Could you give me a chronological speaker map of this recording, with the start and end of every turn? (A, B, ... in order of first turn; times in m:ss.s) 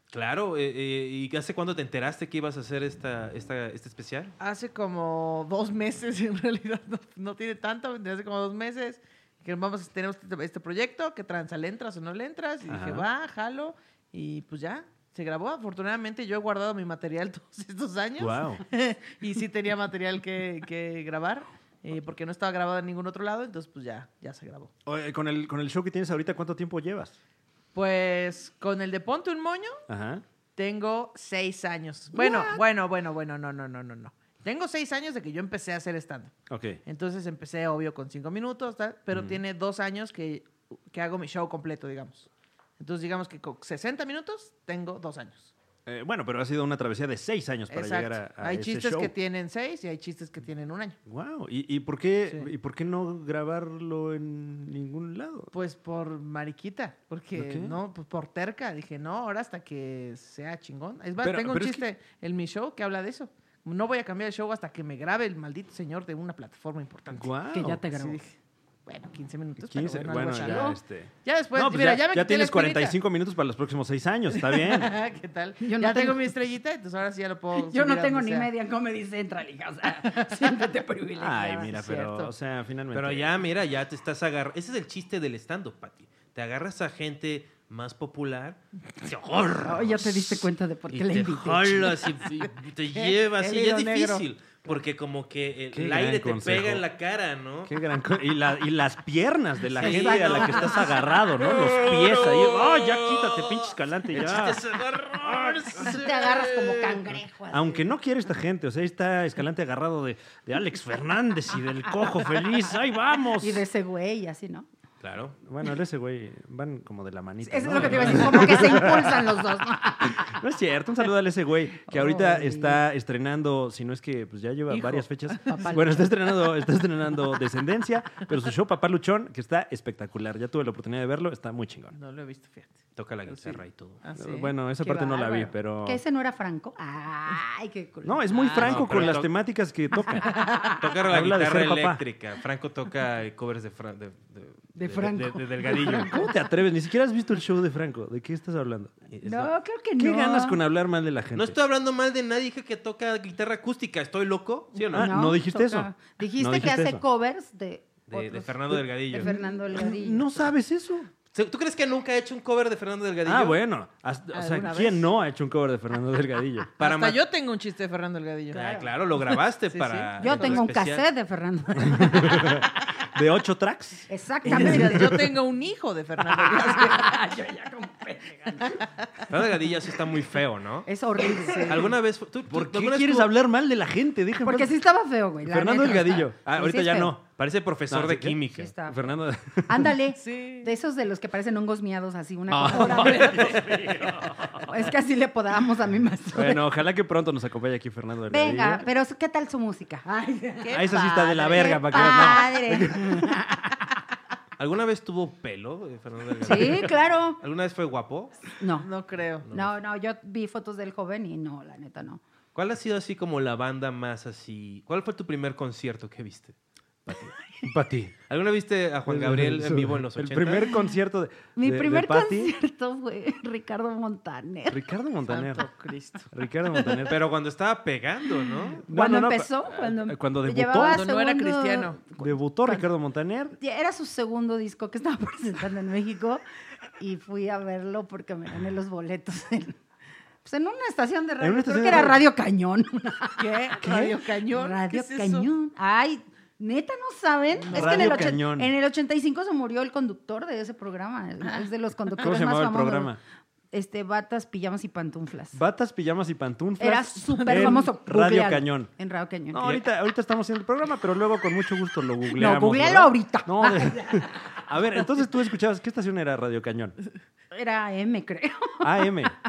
0:00.1-0:04.3 A
0:04.4-0:24.7 B
0:12.7-0:13.1 C
0:18.2-0:18.6 C
0:24.8-0:27.1 C
0:27.7-0:29.8 B
0:29.9-0:30.2 C
0:30.6-0:36.3 B
0:32.1-0:32.6 D
0:36.5-0:36.8 C
0:36.8-0:42.3 B
0:39.1-0:39.4 C
0:42.8-0:45.5 B
0:45.8-0:49.1 C
0:47.7-0:51.0 B
0:51.0-0:55.5 C
0:55.5-1:07.4 B
0:57.3-0:57.8 C
1:01.2-1:01.8 C
1:07.1-1:07.8 C
1:07.5-1:08.2 D
1:07.9-1:08.3 B
1:08.8-1:13.0 B
1:09.6-1:15.0 C
1:10.3-1:10.8 D
1:14.3-1:18.5 B
1:15.6-1:16.3 D
1:17.5-1:22.0 D
1:21.2-1:23.4 C
1:21.8-1:22.3 B
1:22.9-1:30.1 A
1:29.6-1:32.2 D
1:30.9-1:37.7 A
1:32.9-1:34.2 B
1:35.7-1:36.8 C
1:37.6-1:45.7 C
1:39.8-1:47.1 A
1:39.8-1:40.9 D
1:45.7-1:47.8 D
1:47.5-1:53.6 C
1:53.4-1:54.7 D
1:55.0-1:55.4 A
1:55.4-1:59.4 C
1:57.4-2:00.4 D
2:00.0-2:11.9 C
2:01.9-2:02.8 D
2:04.7-2:05.6 B
2:05.5-2:06.1 D
2:11.9-2:14.5 B
2:13.0-2:14.0 A
2:14.2-2:16.0 C
2:14.8-2:19.1 D
2:18.0-2:20.4 C
2:18.3-2:18.8 B
2:18.5-2:19.3 A
2:20.2-2:20.7 D
2:20.8-2:26.2 A
2:21.0-2:22.0 C
2:24.7-2:26.4 D
2:25.7-2:29.0 C
2:29.1-2:29.5 A
2:29.2-2:30.6 D
2:30.0-2:31.6 C
2:31.3-2:35.1 A
2:34.9-2:37.0 C
2:34.9-2:40.5 D
2:38.1-2:39.3 A
2:39.1-2:41.1 C
2:41.3-2:43.6 A
2:43.2-2:46.7 C
2:44.3-2:45.1 B
2:46.8-2:47.2 A
2:46.8-2:50.6 B
2:48.5-2:51.0 A
2:48.5-2:48.9 D
2:50.2-2:52.7 D
2:51.8-2:55.4 C
2:54.1-2:55.2 D
2:54.4-2:57.2 B
2:56.5-2:58.8 D
2:59.3-3:00.9 A
3:00.9-3:01.9 D
3:01.4-3:01.9 B
3:01.6-3:03.3 A
3:02.5-3:04.7 C
3:04.4-3:07.1 D
3:05.4-3:07.2 C
3:07.3-3:08.7 A
3:07.9-3:09.9 C
3:08.5-3:09.1 D
3:09.7-3:13.8 D
3:10.2-3:10.7 B
3:12.5-3:14.9 C
3:14.6-3:16.6 D
3:16.3-3:18.8 C
3:18.3-3:23.7 D
3:20.6-3:22.5 B
3:20.7-3:23.4 C
3:24.6-3:28.4 A
3:26.4-3:27.4 D
3:28.6-3:28.9 D
3:28.8-3:29.4 B
3:29.4-3:29.8 A
3:29.5-3:32.2 D
3:32.5-3:36.5 A
3:37.0-3:37.3 A
3:37.6-3:38.1 C
3:38.3-3:40.7 A
3:39.0-3:42.5 C
3:41.6-3:44.9 D
3:44.7-3:45.7 C
3:45.3-3:46.3 B
3:46.3-3:47.2 C
3:47.1-3:48.8 A
3:48.9-3:52.9 D
3:48.9-3:51.0 C
3:50.7-3:52.0 B
3:52.2-3:53.6 C
3:53.6-3:56.4 D
3:57.0-3:59.8 D
4:00.4-4:03.7 D
4:01.4-4:02.2 C
4:03.4-4:05.5 B
4:03.8-4:04.2 C
4:04.5-4:13.2 D
4:07.5-4:08.3 B
4:07.7-4:08.7 C
4:12.2-4:13.2 C
4:13.7-4:15.6 D
4:15.5-4:18.9 C
4:16.8-4:19.8 D
4:17.3-4:17.9 B
4:19.5-4:27.0 C
4:22.3-4:24.3 D
4:27.5-4:29.3 D
4:28.8-4:29.4 C